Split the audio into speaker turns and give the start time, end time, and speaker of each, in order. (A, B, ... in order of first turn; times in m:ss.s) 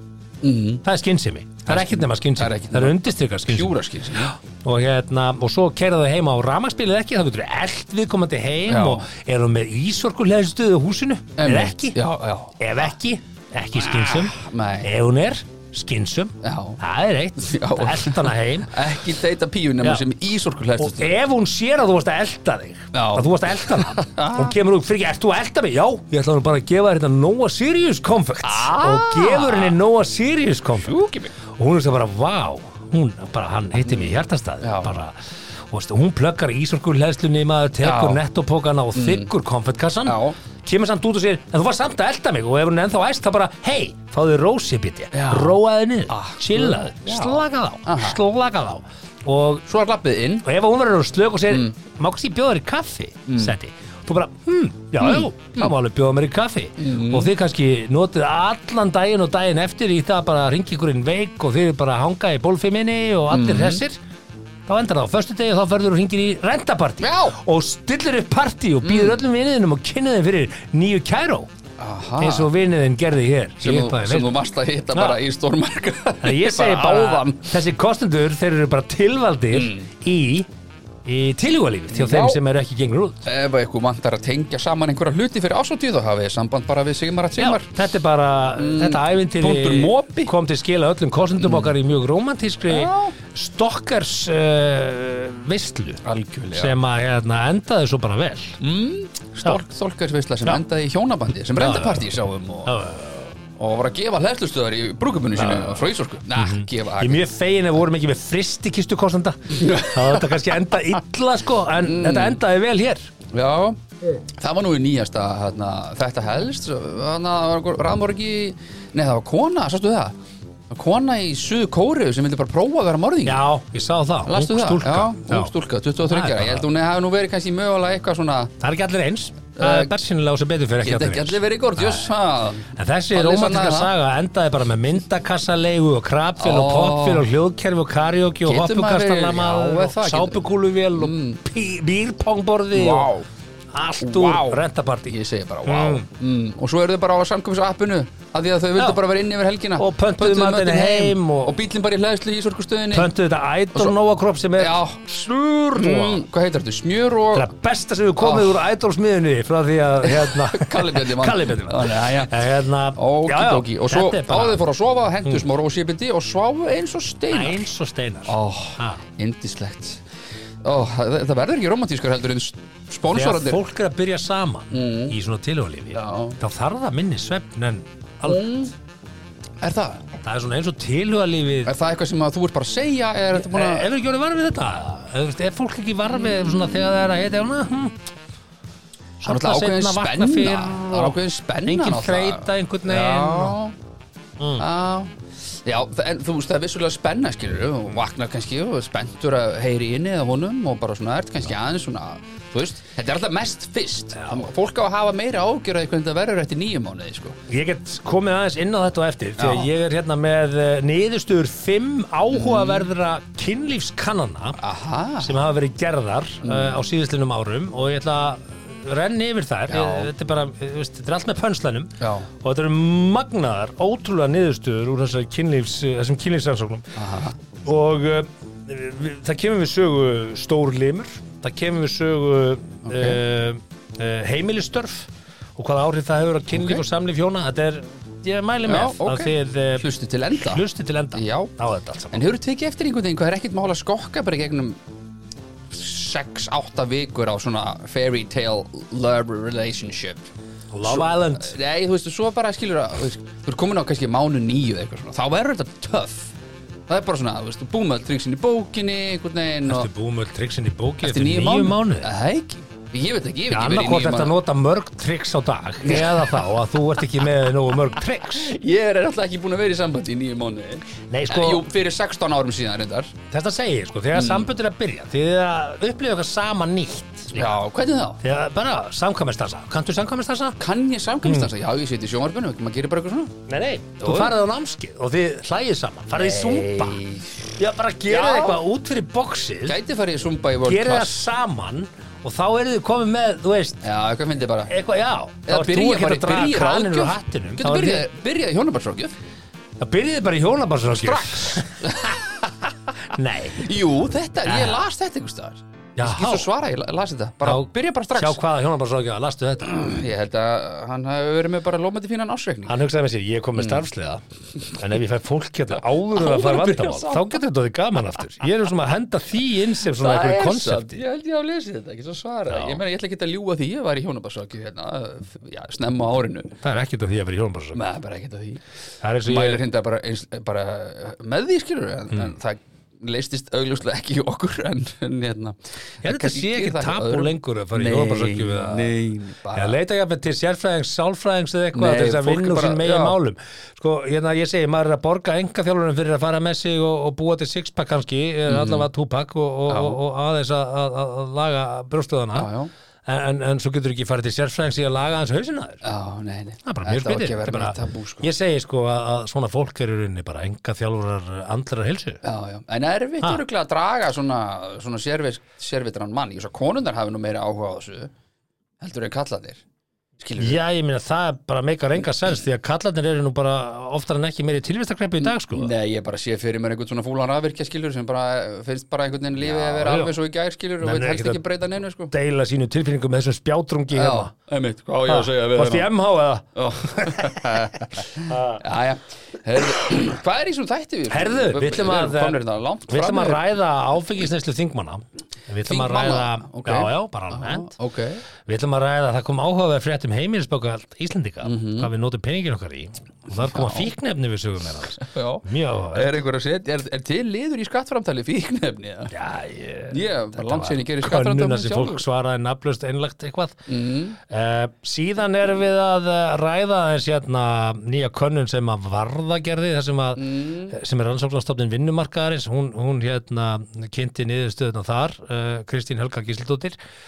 0:00.4-0:00.8 A
0:00.8-0:12.0 B
0:01.7-0:04.4 A
0:08.7-0:09.0 A
0:11.4-0:12.6 A
0:12.6-0:18.8 B
0:13.8-0:14.9 A
0:16.4-0:16.8 A
0:17.4-0:21.2 A
0:20.8-0:30.9 B
0:22.9-0:24.6 A
0:28.4-0:29.8 A
0:30.8-0:31.3 A
0:31.5-0:49.6 B
0:33.8-0:34.9 A
0:37.8-0:38.2 A
0:39.0-0:39.3 A
0:40.1-0:40.4 A
0:45.1-0:45.6 A
0:46.1-0:48.2 A
0:49.7-0:50.4 A
0:50.4-1:04.0 B
0:53.3-0:53.5 A
0:55.0-0:55.7 A
0:56.8-0:57.3 A
1:03.3-1:03.8 A
1:04.7-1:11.5 B
1:07.0-1:07.4 A
1:08.8-1:09.2 A
1:11.8-1:12.5 A
1:12.2-1:14.4 B
1:13.6-1:17.5 A
1:14.9-1:15.2 B
1:16.2-1:20.5 B
1:19.5-1:19.9 A
1:21.0-1:23.3 B
1:21.9-1:22.4 A
1:23.2-1:27.7 A
1:27.4-1:38.6 B
1:28.6-1:30.3 A
1:31.4-1:31.7 A
1:32.7-1:33.2 A
1:36.0-1:36.8 A
1:38.6-1:42.7 A
1:41.6-1:42.1 B
1:42.7-1:43.3 B
1:43.6-1:47.2 A
1:45.4-1:45.8 B
1:46.4-1:53.1 B
1:49.5-1:50.6 A
1:51.8-1:52.4 A
1:53.3-2:00.2 A
2:00.7-2:03.4 A
2:03.2-2:05.5 B
2:04.3-2:08.5 A
2:06.0-2:06.7 B
2:08.6-2:12.1 B
2:09.6-2:10.0 A
2:10.8-2:13.9 A
2:12.7-2:23.1 B
2:16.4-2:17.3 A
2:18.5-2:21.4 A
2:22.7-2:23.3 A
2:23.7-2:25.2 B
2:24.0-2:33.1 A
2:25.7-2:26.1 B
2:29.8-2:31.6 B
2:32.9-2:36.2 B
2:34.6-2:35.0 A
2:35.8-2:37.5 A
2:37.3-2:44.6 B
2:38.2-2:38.6 A
2:40.0-2:42.4 A
2:43.0-2:47.7 A
2:47.3-2:49.0 B
2:48.3-2:50.0 A
2:50.6-2:53.6 A
2:53.1-2:58.4 B
2:54.7-2:55.2 A
2:55.9-2:56.4 A
2:58.2-2:58.7 A
2:59.6-3:00.0 A
3:00.2-3:01.7 B
3:01.7-3:03.9 A
3:03.4-3:08.0 B
3:06.1-3:06.7 A
3:09.2-3:13.6 B
3:09.2-3:13.8 A
3:14.4-3:14.6 B
3:14.6-3:15.1 A
3:15.6-3:27.4 A
3:24.1-3:24.5 B
3:27.5-3:34.6 B
3:29.4-3:29.7 A
3:32.3-3:32.9 A
3:34.6-3:35.3 A
3:35.2-3:46.9 B
3:36.4-3:36.8 A
3:39.7-3:40.1 A
3:42.0-3:42.3 A
3:47.0-3:47.4 A
3:47.6-4:02.2 B
3:52.9-3:53.2 A
3:56.5-3:56.8 A
3:58.7-4:01.5 A
4:02.1-4:04.8 A
4:05.7-4:10.3 A
4:10.7-4:11.6 B
4:10.8-4:16.3 A
4:16.9-4:19.9 A
4:19.7-4:22.1 B
4:21.0-4:24.3 A
4:23.5-4:28.5 B
4:25.8-4:26.5 A
4:27.9-4:33.1 A
4:31.1-4:31.6 B
4:33.3-4:37.6 B
4:34.1-4:34.5 A
4:37.4-4:38.2 A
4:38.2-4:40.6 B
4:40.6-4:43.3 A
4:43.5-4:47.0 B
4:44.0-4:44.3 A
4:46.1-4:47.6 A
4:47.6-4:49.8 B
4:48.1-4:48.6 A
4:49.7-4:51.2 A
4:50.6-4:53.8 B
4:53.8-4:54.7 A
4:54.7-4:58.1 B
4:55.5-4:59.1 A
4:59.8-5:02.2 B
5:00.9-5:02.5 A
5:03.1-5:03.7 B
5:03.6-5:08.4 A
5:04.5-5:04.8 B
5:06.0-5:06.5 B
5:07.4-5:09.8 B
5:09.6-5:12.8 A
5:12.7-5:21.0 B
5:13.6-5:13.8 A
5:16.1-5:17.4 A
5:20.0-5:26.6 A
5:22.5-5:22.8 B
5:26.6-5:27.8 B
5:27.8-5:28.6 A
5:29.0-5:29.6 B
5:29.3-5:39.8 A
5:36.0-5:38.9 B
5:39.5-5:52.5 B
5:41.8-5:43.2 A
5:48.5-5:48.9 A
5:49.7-5:50.0 A
5:52.3-5:52.7 A
5:53.1-5:55.8 B
5:55.8-5:58.3 A
5:56.6-6:02.2 B
6:02.2-6:08.1 A
6:08.8-6:09.6 A
6:10.2-6:10.6 A
6:10.4-6:15.7 B
6:15.2-6:22.1 A
6:19.4-6:20.1 B
6:20.8-6:21.4 B
6:22.1-6:24.3 B
6:23.9-6:25.9 A
6:25.1-6:28.6 B
6:26.6-6:33.4 A
6:31.1-6:37.7 B
6:35.7-6:38.2 A
6:38.5-6:46.2 B
6:41.4-6:41.9 A
6:43.4-6:43.9 A
6:45.0-6:49.1 A
6:49.1-6:53.6 B
6:49.9-6:52.0 A
6:53.7-6:54.2 A
6:54.3-7:06.8 B
7:00.2-7:00.8 A